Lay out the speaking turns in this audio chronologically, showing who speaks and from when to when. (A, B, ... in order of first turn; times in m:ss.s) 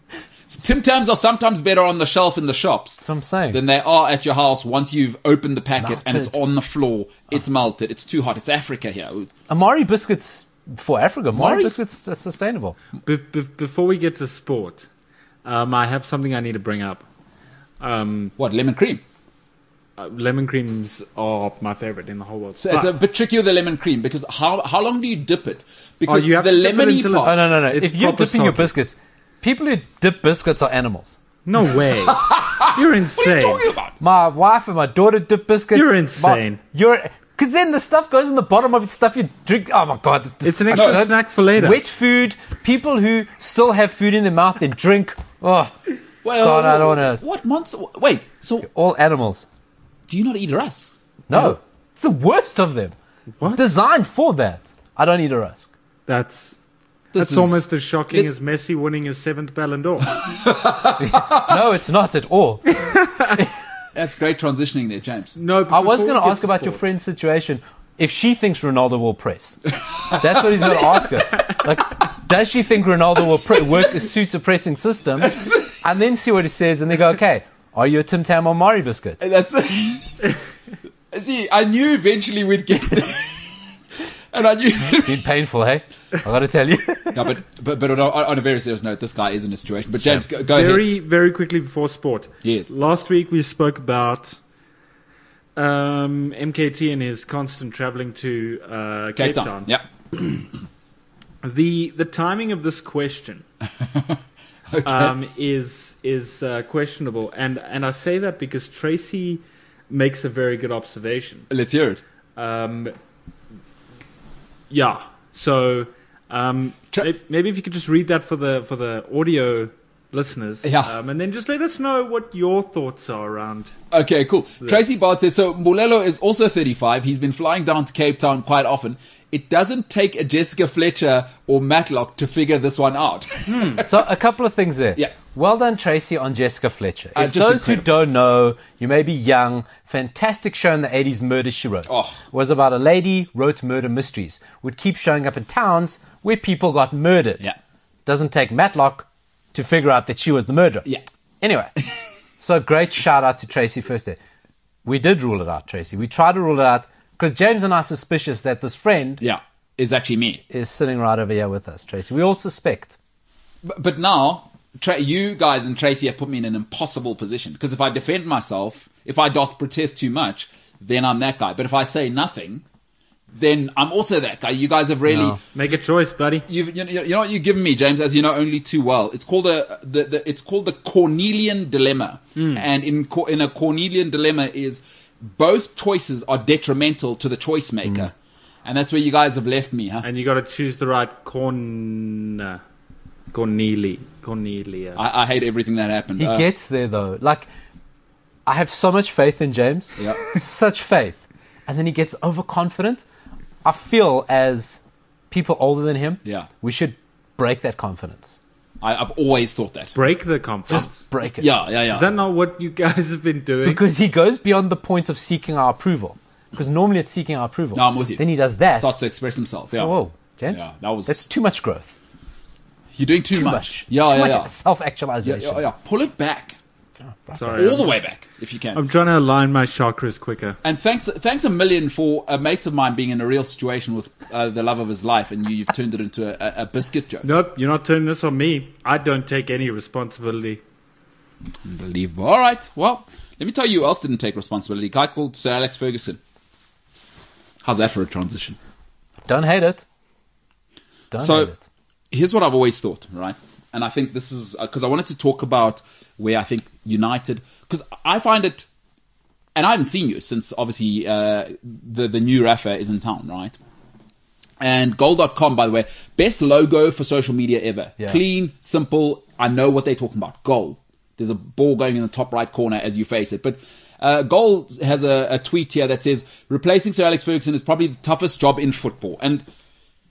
0:00.5-0:09.3 A
0:03.0-0:03.6 B
0:05.8-0:06.3 B
0:09.5-0:12.8 B
0:11.3-0:11.8 A
0:13.0-0:14.9 C
0:15.4-0:17.0 C
0:17.8-0:18.3 C
0:18.4-0:19.0 A
0:20.0-0:23.0 C
0:22.6-0:27.6 A
0:26.1-0:28.7 C
0:27.2-0:31.2 B
0:31.4-0:33.7 C
0:32.0-0:33.9 A
0:34.0-0:45.8 B
0:35.7-0:36.6 C
0:40.4-0:41.8 C
0:40.7-0:41.1 A
0:46.2-0:48.7 A
0:46.4-0:47.2 B
0:48.6-0:49.4 B
0:50.1-0:51.0 A
0:51.3-0:52.9 B
0:53.4-0:53.6 C
0:53.5-0:55.7 B
0:56.1-0:56.6 C
0:57.1-0:58.3 A
0:57.1-1:00.1 C
1:00.3-1:01.5 A
1:01.0-1:03.4 B
1:03.9-1:05.4 A
1:05.4-1:06.9 C
1:05.7-1:19.2 B
1:10.1-1:10.6 A
1:15.2-1:15.6 A
1:19.2-1:20.3 A
1:21.1-1:23.5 A
1:24.3-1:25.2 A
1:25.0-1:27.3 B
1:27.1-1:30.8 A
1:30.4-1:34.4 C
1:32.4-1:32.7 A
1:35.6-1:39.7 C
1:39.2-1:39.8 A
1:41.4-1:43.4 C
1:43.8-1:44.2 A
1:44.7-1:45.1 A
1:44.8-1:51.5 C
1:51.5-1:52.0 A
1:52.4-1:52.9 C
1:54.7-2:03.7 C
2:00.6-2:00.9 A
2:03.9-2:14.0 A
2:13.7-2:27.4 B
2:17.1-2:17.9 A
2:21.9-2:22.2 A
2:28.0-2:30.9 B
2:31.4-2:31.7 B
2:32.4-2:34.2 B
2:34.8-2:39.2 B
2:39.2-2:40.4 A
2:40.5-2:43.0 B
2:43.6-2:52.6 A
2:53.3-2:55.4 A
2:55.1-2:55.4 B
2:55.5-2:56.4 C
2:56.5-3:08.1 A
3:08.6-3:10.1 A
3:10.0-3:12.6 C
3:13.3-3:15.0 C
3:15.0-3:16.5 A
3:16.2-3:17.5 B
3:18.4-3:23.0 B
3:23.6-3:24.8 B
3:25.3-3:28.4 B
3:28.8-3:30.0 A
3:29.9-3:31.0 C
3:30.7-3:31.5 B
3:31.4-3:32.1 A
3:31.9-3:33.8 C
3:33.6-3:38.9 B
3:37.7-3:40.0 A
3:39.8-3:41.9 B
3:40.5-3:41.2 A
3:43.0-3:44.5 A
3:43.3-3:45.6 B
3:45.2-3:46.6 A
3:47.2-3:47.7 B
3:47.4-3:48.0 C
3:47.5-3:48.8 A
3:48.7-3:50.6 C
3:50.6-3:57.3 A
3:57.2-4:00.6 C
4:01.6-4:06.2 A
4:07.6-4:08.6 A
4:09.2-4:09.8 B
4:11.1-4:11.6 B
4:11.1-4:11.5 A
4:12.1-4:18.6 A
4:19.5-4:23.6 A
4:24.6-4:39.4 A